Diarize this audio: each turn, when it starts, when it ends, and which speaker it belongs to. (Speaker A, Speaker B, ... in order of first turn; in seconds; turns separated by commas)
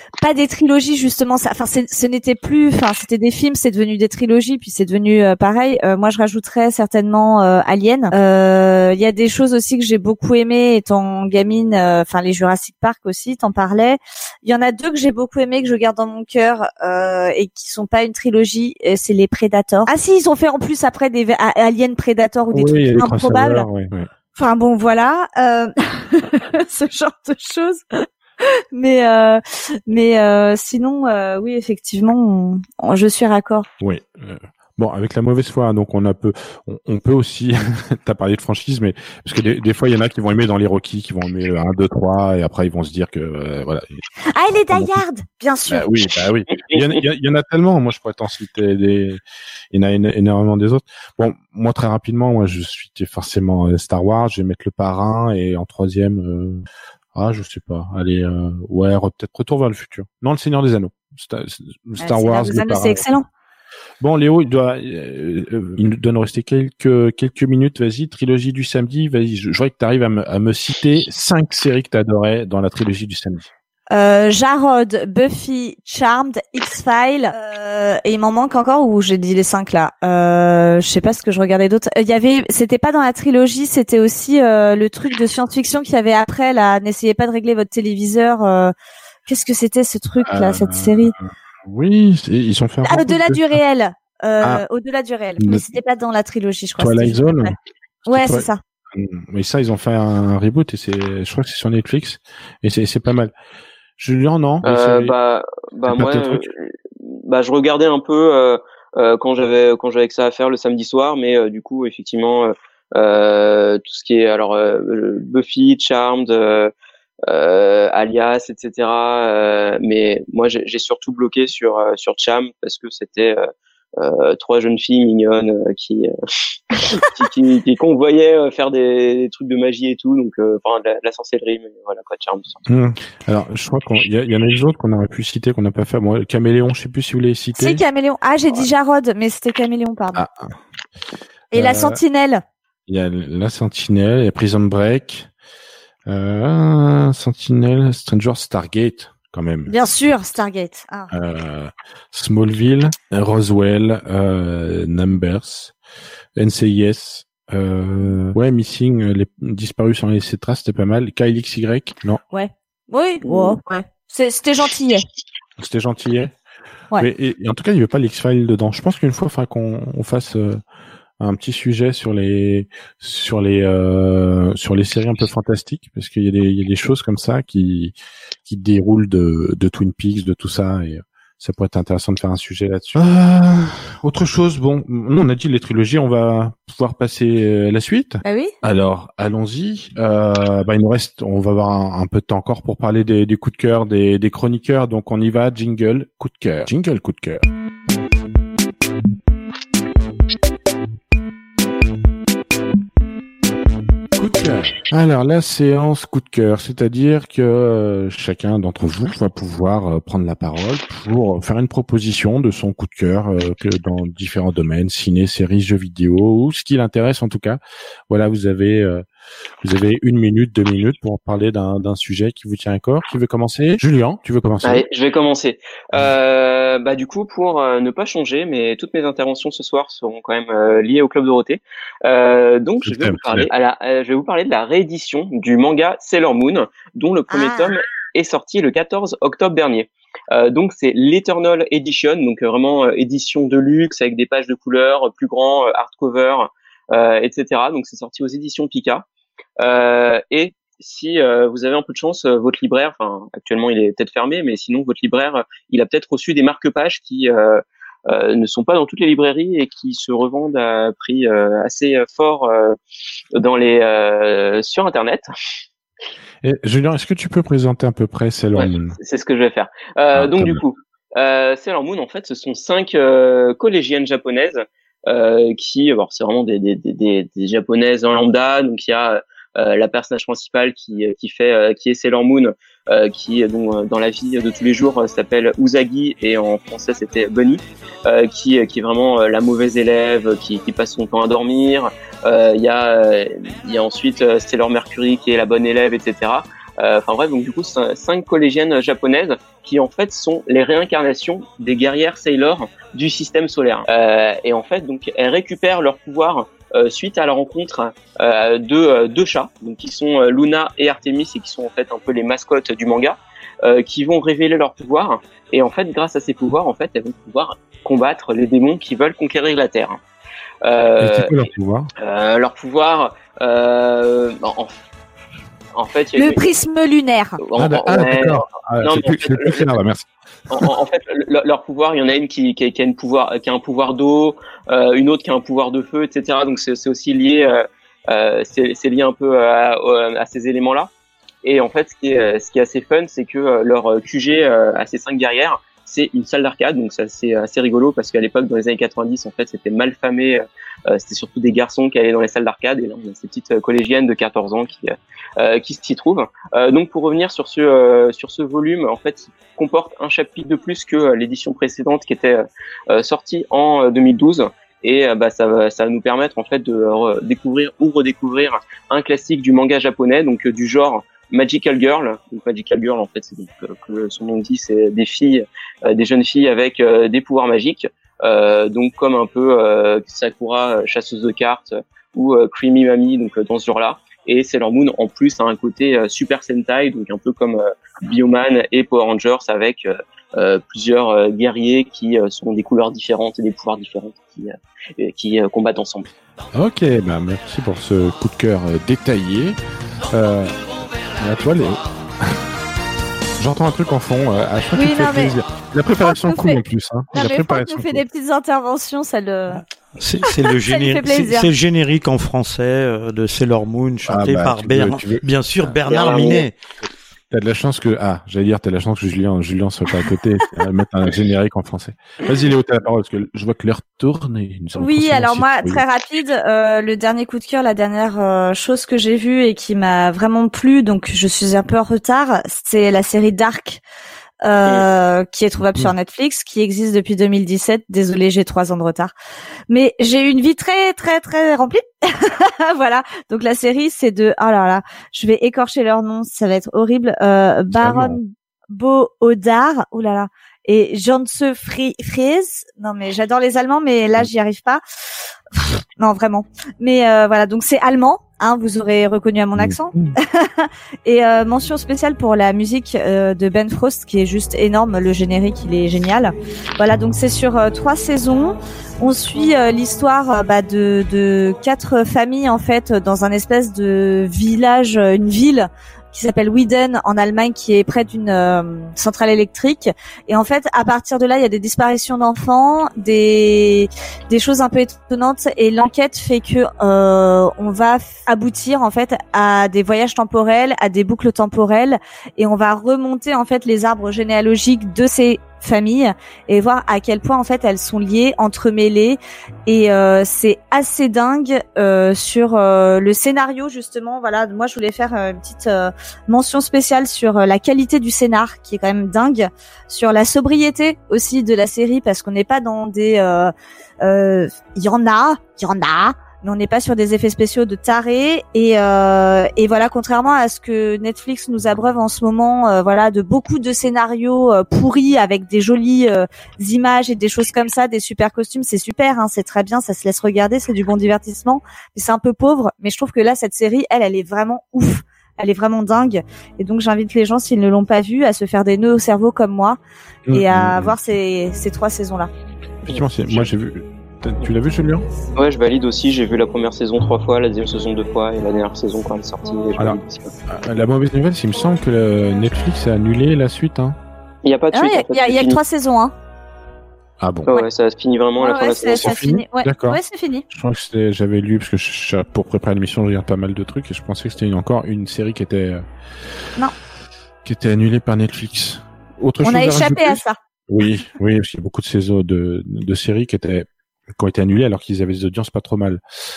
Speaker A: 0.2-23.7, Speaker B: 22.5-24.1, Speaker A: 24.4-28.1, Speaker A: 28.7-33.7, Speaker B: 33.8-44.0, Speaker A: 44.3-45.9, Speaker B: 44.7-45.0, Speaker B: 45.7-49.2, Speaker B: 49.7-63.0, Speaker A: 62.0-63.2, Speaker B: 64.0-73.5, Speaker A: 73.9-88.7, Speaker A: 89.3-91.1, Speaker B: 90.2-93.5, Speaker A: 92.8-97.5, Speaker B: 96.8-97.5, Speaker A: 98.1-98.6, Speaker B: 98.1-103.3, Speaker B: 104.0-105.1, Speaker C: 104.6-116.7, Speaker B: 105.9-106.5, Speaker C: 117.2-123.4, Speaker C: 124.0-126.1, Speaker C: 126.7-132.6, Speaker B: 132.7-137.8, Speaker A: 137.6-140.2, Speaker B: 140.1-140.5, Speaker A: 141.5-142.4, Speaker B: 141.5-142.0, Speaker B: 142.9-145.3, Speaker B: 146.1-149.7, Speaker A: 149.7-151.1, Speaker B: 151.1-155.7, Speaker B: 156.3-162.2, Speaker A: 162.3-165.0, Speaker B: 165.6-166.3, Speaker B: 167.0-170.6, Speaker B: 171.2-177.9, Speaker B: 178.5-197.4, Speaker A: 188.2-188.5, Speaker B: 204.1-219.0, Speaker B: 219.6-224.8, Speaker C: 224.6-249.1, Speaker B: 232.8-233.5, Speaker A: 237.3-237.7, Speaker C: 249.6-262.8, Speaker C: 263.3-265.3, Speaker B: 266.4-269.0, Speaker C: 268.6-320.0, Speaker B: 270.2-270.6, Speaker C: 320.6-321.4, Speaker B: 321.0-321.9, Speaker C: 322.0-324.8, Speaker C: 325.7-326.5, Speaker A: 326.1-327.4, Speaker C: 327.4-329.8, Speaker B: 327.6-330.7, Speaker C: 330.5-340.9, Speaker C: 341.4-396.1, Speaker B: 396.5-399.6, Speaker B: 400.1-400.6, Speaker B: 401.2-402.4, Speaker B: 403.4-408.0, Speaker A: 404.7-405.3, Speaker A: 406.0-406.6, Speaker A: 407.1-409.6, Speaker D: 409.6-416.5, Speaker A: 410.3-411.5, Speaker B: 414.1-415.9, Speaker C: 415.9-416.4, Speaker A: 415.9-416.4, Speaker B: 417.3-425.8, Speaker A: 424.8-433.8, Speaker A: 434.4-439.1, Speaker A: 439.7-454.8, Speaker B: 447.8-448.2, Speaker A: 455.5-539.8, Speaker B: 459.6-460.1, Speaker B: 540.3-541.0, Speaker A: 540.3-542.3, Speaker B: 542.8-545.0, Speaker C: 545.3-550.3, Speaker B: 549.8-554.0, Speaker C: 554.4-555.6, Speaker A: 554.7-556.1, Speaker B: 557.2-557.5, Speaker C: 557.5-559.2, Speaker A: 558.4-560.4, Speaker B: 558.9-565.8, Speaker B: 567.4-576.0, Speaker A: 569.4-570.4